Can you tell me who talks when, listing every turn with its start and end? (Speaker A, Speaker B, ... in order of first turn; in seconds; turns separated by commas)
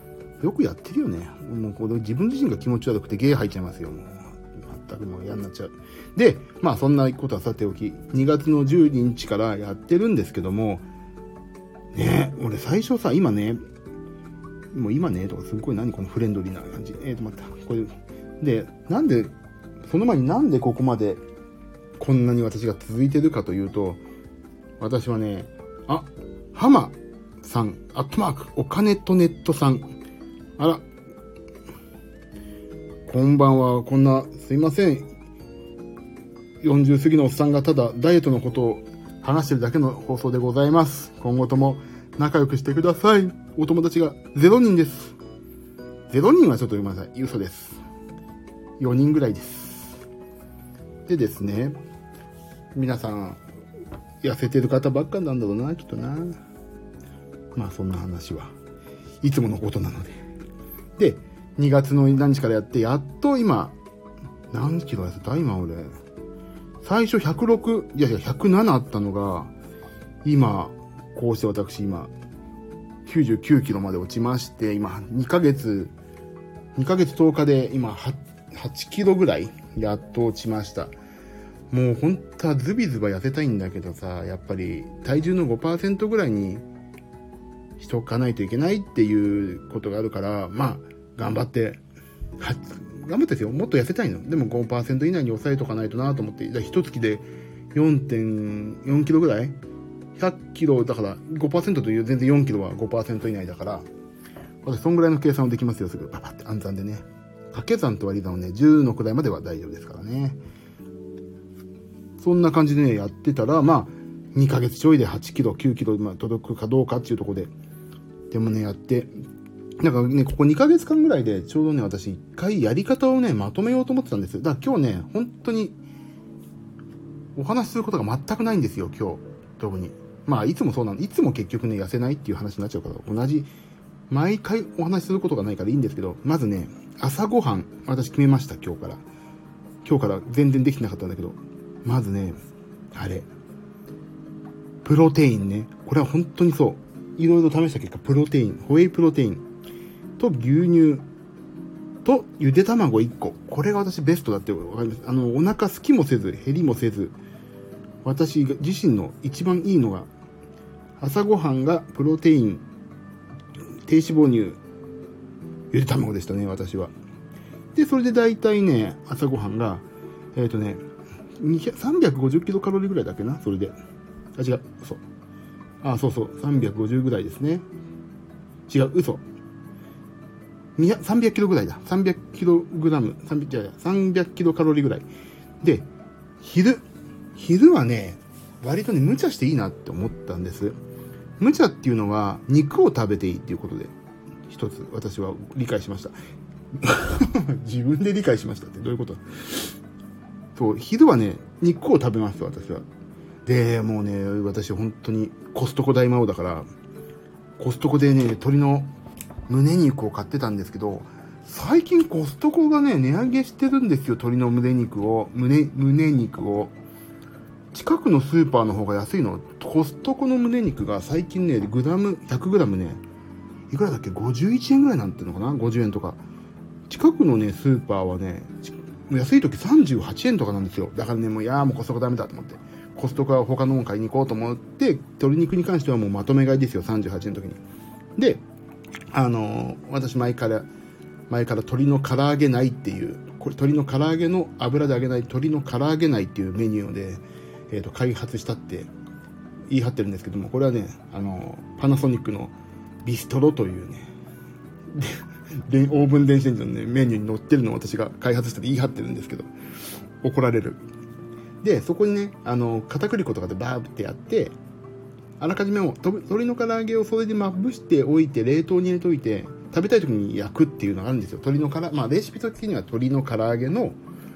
Speaker A: 0.4-10.8, Speaker A: 11.9-13.6, Speaker A: 14.7-19.3, Speaker A: 19.8-21.2, Speaker A: 22.0-24.0, Speaker A: 24.8-29.9, Speaker A: 30.6-30.8, Speaker A: 33.0-35.1, Speaker A: 36.6-45.2, Speaker A: 46.1-47.8, Speaker A: 48.8-50.0, Speaker A: 51.1-51.8, Speaker A: 52.7-53.4, Speaker A: 54.2-56.4, Speaker A: 57.5-58.5, Speaker A: 59.2-60.2, Speaker A: 61.0-63.8, Speaker A: 64.5-65.9, Speaker A: 66.8-69.5, Speaker A: 70.2-72.1, Speaker A: 73.0-75.9, Speaker A: 76.7-80.9, Speaker A: 81.7-86.6, Speaker A: 87.8-91.8, Speaker A: 92.4-99.6, Speaker A: 100.2-103.9, Speaker A: 104.6-110.4, Speaker A: 112.2-117.5, Speaker A: 118.3-119.1, Speaker A: 119.8-125.8, Speaker A: 127.3-133.5, Speaker A: 134.1-139.0, Speaker A: 139.8-142.4, Speaker A: 142.9-143.3, Speaker A: 144.8-149.4, Speaker A: 150.2-151.0, Speaker A: 152.0-157.2, Speaker A: 158.0-160.1, Speaker A: 161.0-162.6, Speaker A: 163.8-164.6, Speaker A: 165.7-166.9, Speaker A: 167.7-170.8, Speaker A: 171.4-173.7, Speaker A: 174.3-175.0, Speaker A: 175.8-177.7, Speaker A: 178.7-179.2, Speaker A: 180.8-185.1, Speaker A: 185.6-185.9, Speaker A: 186.4-186.8, Speaker A: 187.3-190.8, Speaker A: 191.4-193.9, Speaker A: 194.5-196.2, Speaker A: 196.8-199.7, Speaker A: 200.5-202.8, Speaker A: 203.4-206.7, Speaker A: 207.6-208.9, Speaker A: 209.5-216.8, Speaker A: 217.7-223.0, Speaker A: 223.7-226.2, Speaker A: 226.9-237.6, Speaker A: 238.2-238.4, Speaker A: 239.1-240.7, Speaker A: 241.3-248.9, Speaker A: 249.7-252.5, Speaker A: 253.0-254.1, Speaker A: 254.9-259.5, Speaker A: 260.2-260.8, Speaker A: 261.6-264.5, Speaker A: 265.4-274.0